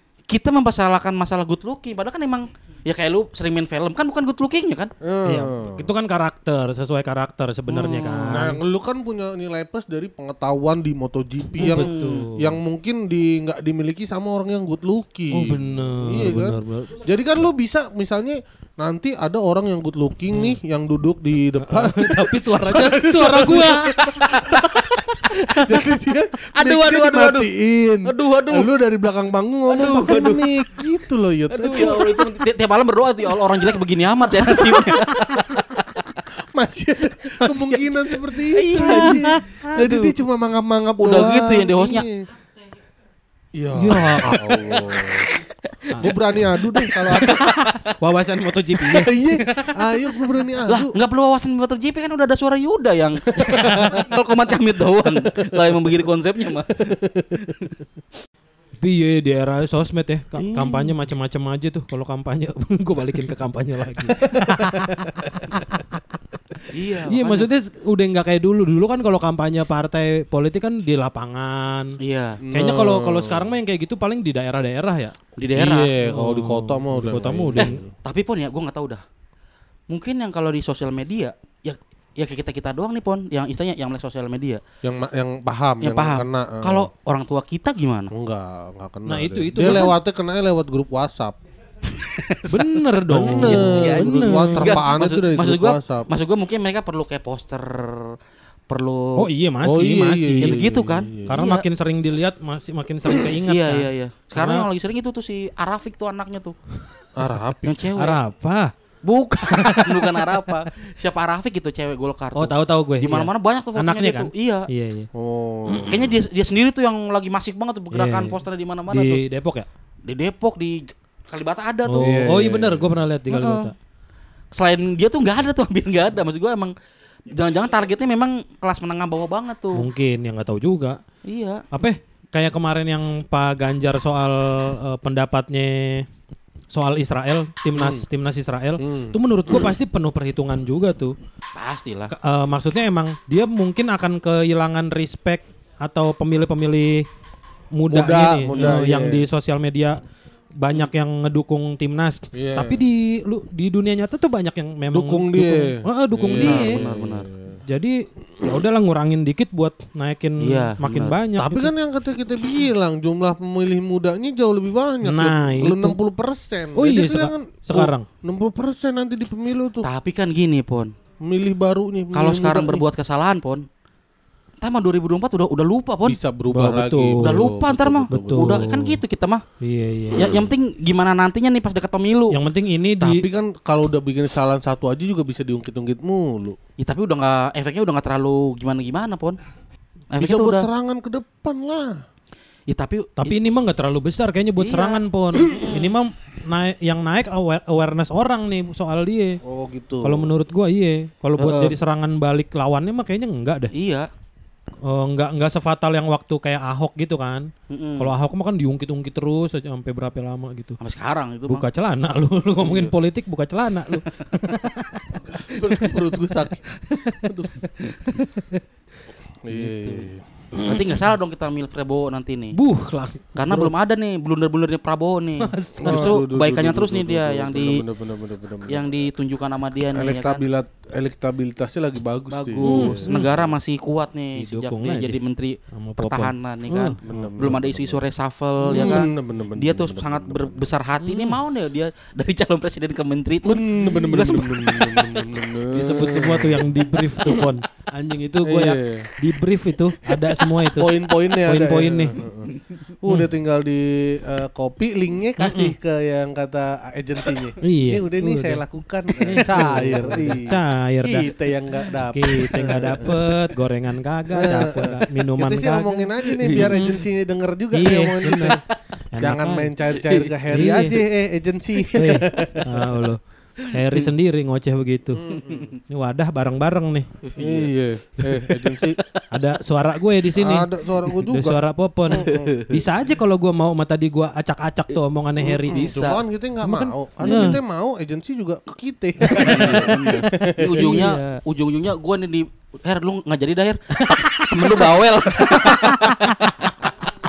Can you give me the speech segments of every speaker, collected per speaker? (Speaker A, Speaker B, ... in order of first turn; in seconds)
Speaker A: 0.3-4.9, 7.7-8.5, 11.6-12.3, 24.1-25.9, 26.6-27.5, 28.1-28.7, 29.7-30.5, 31.5-36.2, 37.1-40.1, 41.0-42.1, 44.3-48.0, 50.7-57.8, 66.7-67.5, 72.0-72.4, 75.4-75.9, 77.6-79.0, 79.9-84.6, 85.8-88.1, 91.9-98.2, 98.7-99.2, 100.4-101.7, 103.1-106.6, 107.7-108.2, 109.0-114.7, 115.9-119.2, 120.1-122.1, 123.3-123.7, 124.6-126.8, 127.4-129.9, 131.2-131.6, 141.6-142.1, 156.3-157.3, 160.4-161.2, 169.8-170.9, 172.1-173.7, 174.6-176.2, 177.2-179.4, 180.2-182.4, 186.8-189.4, 190.1-190.7, 192.7-193.4, 194.6-195.9, 201.4-201.8, 203.7-204.1, 207.7-208.1, 210.8-211.7, 219.5-220.1, 220.7-222.6, 223.4-227.8, 228.7-230.4, 232.3-245.3, 252.5-252.8, 266.4-266.8, 269.9-270.3, 273.6-274.1, 275.3-275.8, 277.2-277.7, 278.9-279.2, 282.3-282.7, 285.4-286.2, 289.4-297.1
Speaker B: 5.0-5.9, 8.3-24.9, 25.5-32.4, 34.3-35.6, 36.4-42.3, 43.5-45.3, 46.0-47.4, 48.8-50.9, 53.5-54.0, 56.8-57.5, 60.4-60.9, 64.2-65.8, 72.4-73.5, 75.5-77.9, 84.8-86.9, 88.1-91.4, 93.1-96.1, 99.6-101.4, 107.2-107.8, 115.2-116.1, 122.0-122.9, 137.7-138.1, 138.8-139.2, 147.9-149.2, 152.3-152.8, 154.9-157.6, 161.4-169.9, 171.2-172.8, 176.1-178.7, 180.2-180.5, 183.0-186.6, 190.2-192.0, 199.4-200.3, 212.6-212.9, 215.3-217.6, 219.4-220.3, 225.8-229.1, 229.9-233.6, 237.0-238.0, 238.7-240.7, 243.4-247.4, 248.4-249.1, 250.8-263.2, 264.3-268.6, 269.2-272.6, 275.2-275.7, 277.4-279.0, 280.4-281.6, 282.1-282.5, 285.7-291.0
Speaker C: 5.3-8.6, 11.6-12.5, 15.3-17.0, 21.6-24.0, 31.7-32.0, 38.8-39.3, 43.8-44.4, 47.1-47.4, 48.0-49.9, 53.4-54.0, 58.8-66.0, 66.5-72.0, 72.5-75.2, 76.0-77.8, 89.1-90.0, 92.5-94.8, 99.2-100.6, 101.3-104.7, 106.9-107.4, 108.0-108.7, 109.5-110.6, 112.3-115.1, 117.9-118.4, 118.9-119.7, 121.9-123.7, 129.8-131.0, 131.7-136.1, 136.7-141.2, 142.1-147.1, 147.7-150.0, 150.6-156.8, 157.7-161.7, 165.0-166.0, 166.8-168.1, 176.5-177.5, 178.1-179.0, 179.6-180.4, 182.3-183.2, 193.2-199.4, 200.0-203.7, 204.9-210.8, 211.5-218.6, 220.5-221.1, 222.5-223.7, 225.4-226.2, 232.6-233.3, 234.4-235.2, 235.7-237.3, 238.7-239.0, 241.0-241.4, 245.7-252.2, 255.4-255.8, 257.6-258.6, 259.2-261.3, 262.1-267.0, 267.7-268.6, 269.1-269.7, 270.5-271.0, 271.9-275.2, 275.9-277.1, 279.3-285.9, 286.6-287.6, 289.2-290.1, 290.8-291.4, 294.0-296.5